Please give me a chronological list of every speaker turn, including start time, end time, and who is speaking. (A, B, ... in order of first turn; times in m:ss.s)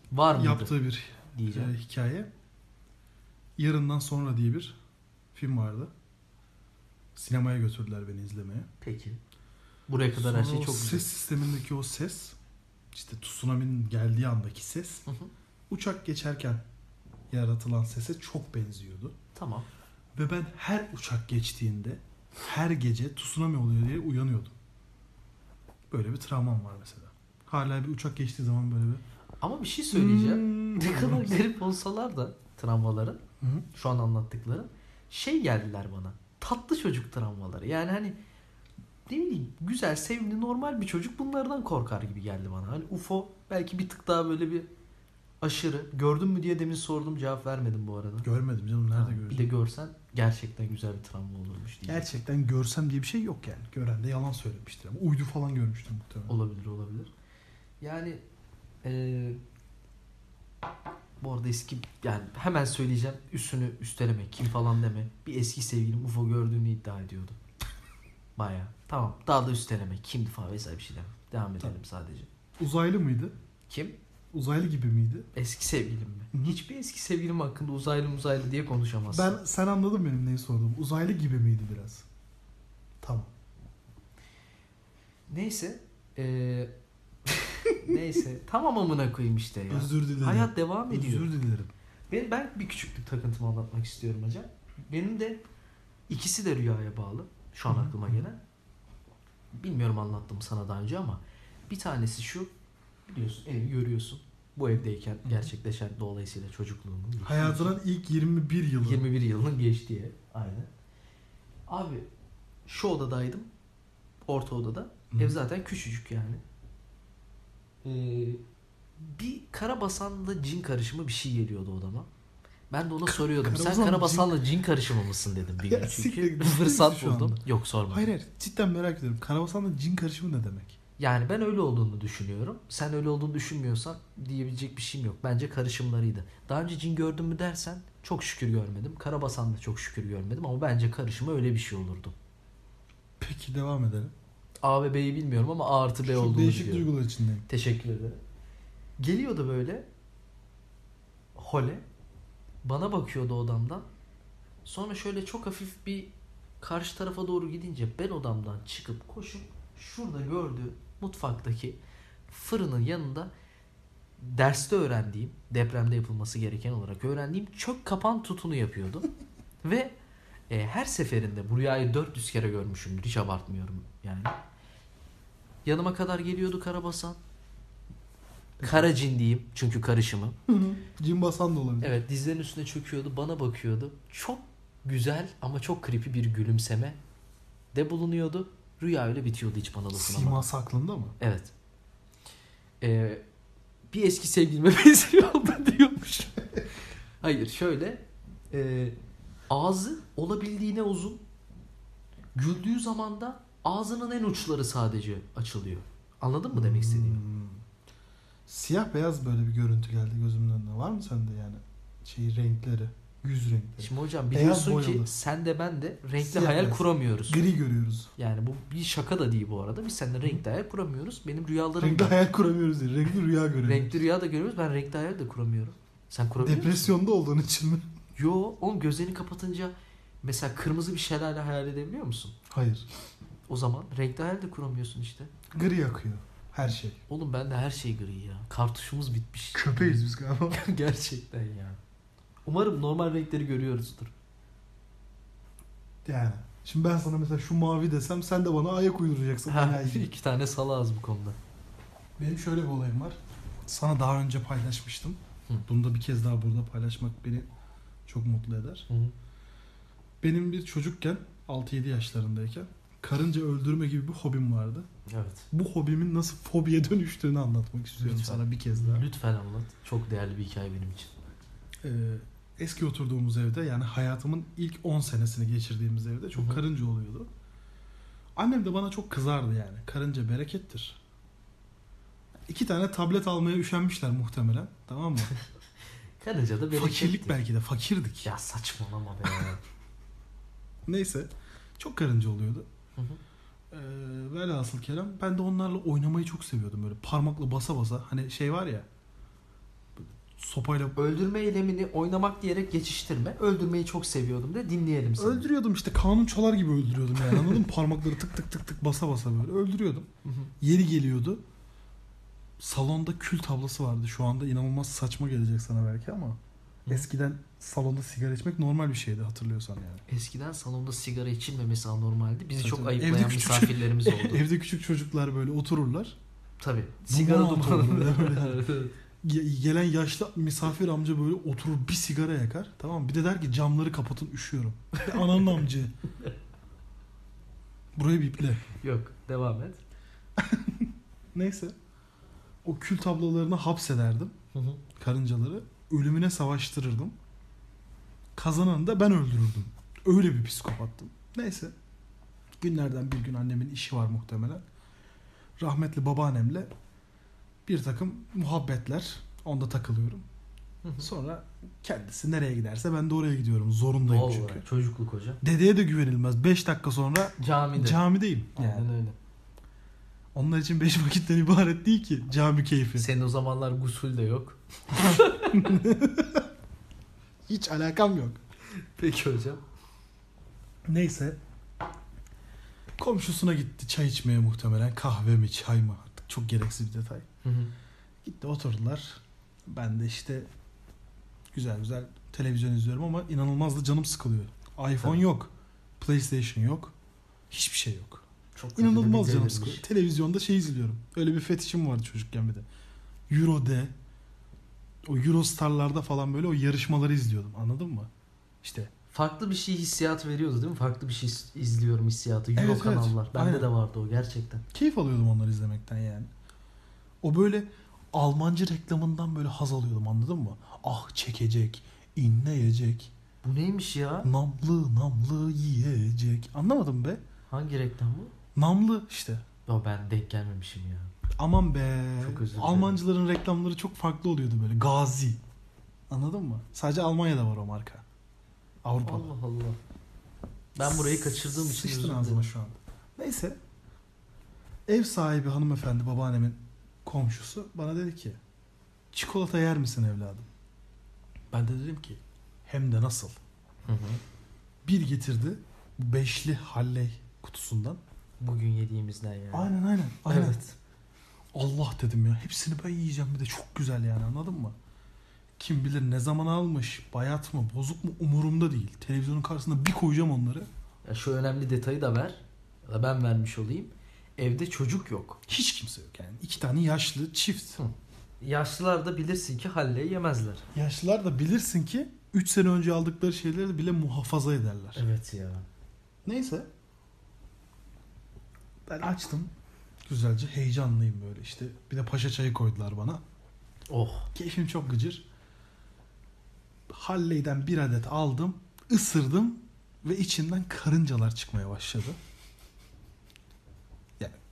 0:00.1-0:00.7 A
0:00.3-0:02.3 B
0:01.3-0:01.7 A
0:03.6-0:04.8 B
0:05.3-0:05.9 B
0:07.1-0:08.7 B
0:08.8-0:09.2 A
0:09.9-0:11.1 A
0:10.1-0:12.4 B
0:12.9-0:15.0 B
0:15.7-0:16.6 B
0:17.3-0:19.1 B
0:19.3-0:19.7 A
0:20.1-0:24.5 B
0:25.9-0:29.0 B
0:29.4-0:33.2 A
0:29.9-0:31.4 B
0:33.4-0:33.6 B
0:33.7-0:38.2 A
0:39.1-0:44.7 A
0:45.4-0:48.3 A
0:48.2-0:49.5 B
0:48.9-0:52.1 A
0:51.9-0:56.4 B
0:56.3-0:57.1 A
0:57.8-0:58.2 A
0:58.8-0:59.4 A
1:01.2-1:07.4 A
1:08.4-1:12.3 A
1:12.6-1:13.3 B
1:13.7-1:14.0 A
1:14.3-1:15.3 B
1:15.3-1:19.4 A
1:16.3-1:16.6 B
1:19.1-1:22.0 B
1:23.0-1:23.3 B
1:25.3-1:26.7 A
1:27.3-1:31.3 A
1:29.7-1:31.7 B
1:32.1-1:35.4 A
1:36.1-1:38.4 A
1:37.7-1:38.2 B
1:39.5-1:42.5 A
1:43.1-1:47.8 A
1:45.2-1:45.5 B
1:47.2-1:49.0 B
1:48.8-1:50.7 A
1:51.7-1:52.1 A
1:52.6-1:53.5 A
1:54.2-1:56.4 A
1:55.1-1:55.4 B
1:57.8-1:58.4 A
1:59.0-2:02.1 A
2:02.7-2:08.1 A
2:03.0-2:04.4 B
2:05.6-2:10.8 B
2:11.0-2:22.1 A
2:23.2-2:24.1 B
2:24.6-2:26.9 A
2:26.0-2:27.4 B
2:27.5-2:28.2 A
2:29.0-2:29.8 A
2:31.4-2:31.8 A
2:32.6-2:33.8 A
2:34.6-2:41.8 A
2:42.3-2:43.3 A
2:44.2-2:49.1 A
2:49.6-2:49.9 A
2:50.5-2:54.3 A
2:55.6-2:57.2 A
2:58.6-2:58.9 B
2:58.6-3:00.4 A
3:00.5-3:02.0 B
3:01.8-3:07.0 A
3:07.7-3:10.5 A
3:09.9-3:11.1 B
3:11.2-3:11.5 A
3:12.8-3:13.2 A
3:13.9-3:16.5 A
3:17.2-3:19.0 A
3:19.5-3:21.2 A
3:22.3-3:27.2 A
3:26.5-3:27.6 B
3:28.5-3:35.1 B
3:33.8-3:37.5 A
3:36.2-3:38.1 B
3:38.2-3:42.2 A
3:41.8-3:44.0 B
3:43.6-3:46.9 A
3:46.4-3:47.9 B
3:48.2-3:52.4 A
3:52.5-3:52.8 B
3:53.5-3:55.3 A
3:55.5-3:57.0 B
3:57.1-4:01.8 A
3:59.5-4:00.6 B
4:02.4-4:04.1 A
4:06.0-4:10.1 B
4:09.5-4:11.4 A
4:12.2-4:17.5 B
4:18.0-4:18.9 B
4:18.9-4:19.1 A
4:20.2-4:24.9 B
4:25.1-4:25.5 A
4:25.5-4:29.0 B
4:28.0-4:31.1 A
4:31.8-4:37.3 B
4:36.3-4:36.6 A
4:38.4-4:41.0 B
4:42.5-4:45.3 B
4:46.2-4:47.4 A
4:46.7-4:48.3 B
4:48.2-4:49.6 A
4:50.9-4:52.6 B
4:53.7-4:58.8 B
5:00.0-5:01.0 B
5:01.0-5:05.5 A
5:05.2-5:10.1 B
5:07.2-5:07.6 A
5:10.2-5:10.5 A
5:10.6-5:11.4 B
5:12.6-5:20.0 B
5:20.1-5:24.4 A
5:22.6-5:26.2 B
5:26.6-5:28.9 A
5:27.1-5:28.7 B
5:29.2-5:35.9 B
5:35.0-5:35.6 A
5:38.0-5:38.6 B
5:38.7-5:39.8 A
5:40.4-5:41.8 B
5:42.6-5:44.3 B
5:44.5-5:44.8 A
5:45.0-5:47.1 B
5:48.3-5:51.7 B
5:52.6-5:54.6 B
5:55.6-5:56.7 B
5:57.6-6:00.2 B
6:00.8-6:01.1 A
6:01.0-6:04.6 B
6:04.0-6:05.4 A
6:05.4-6:08.9 B
6:07.4-6:08.0 A
6:08.5-6:09.2 A
6:10.3-6:13.1 B
6:13.0-6:15.8 A
6:15.0-6:16.5 B
6:17.5-6:18.4 B
6:18.8-6:19.6 A
6:20.8-6:21.4 B
6:23.0-6:27.2 B
6:27.4-6:27.7 A
6:28.2-6:30.5 B
6:31.5-6:36.9 B
6:35.0-6:35.2 A
6:37.5-6:38.2 B
6:38.5-6:39.8 A
6:38.8-6:42.6 B
6:43.3-6:43.9 B
6:45.0-6:48.1 B
6:48.6-6:48.9 B
6:49.1-6:54.6 A
6:52.5-6:53.7 B
6:54.7-6:56.3 B
6:57.2-7:03.1 B
7:03.4-7:04.3 A
7:04.2-7:07.2 B
7:07.5-7:08.3 A
7:08.5-7:09.4 B
7:09.6-7:11.1 A
7:11.4-7:15.4 B
7:12.2-7:13.0 A
7:16.1-7:18.0 B
7:18.8-7:19.3 B
7:19.0-7:19.8 A
7:20.8-7:22.5 A
7:20.8-7:23.6 B
7:24.9-7:28.4 B
7:29.1-7:30.5 B
7:31.5-7:33.4 B
7:33.8-7:34.2 A
7:34.8-7:38.0 B
7:38.4-7:39.7 A
7:39.5-7:40.6 B
7:40.2-7:40.8 A
7:41.5-7:44.8 B
7:45.6-7:50.7 B
7:51.0-7:55.4 A
7:55.5-7:57.8 B
7:57.8-8:00.6 A
8:00.7-8:05.0 B
8:05.0-8:05.6 A
8:06.2-8:06.7 B
8:08.9-8:09.5 B
8:10.0-8:13.2 B
8:13.9-8:14.3 A
8:14.3-8:15.2 B
8:16.9-8:22.2 B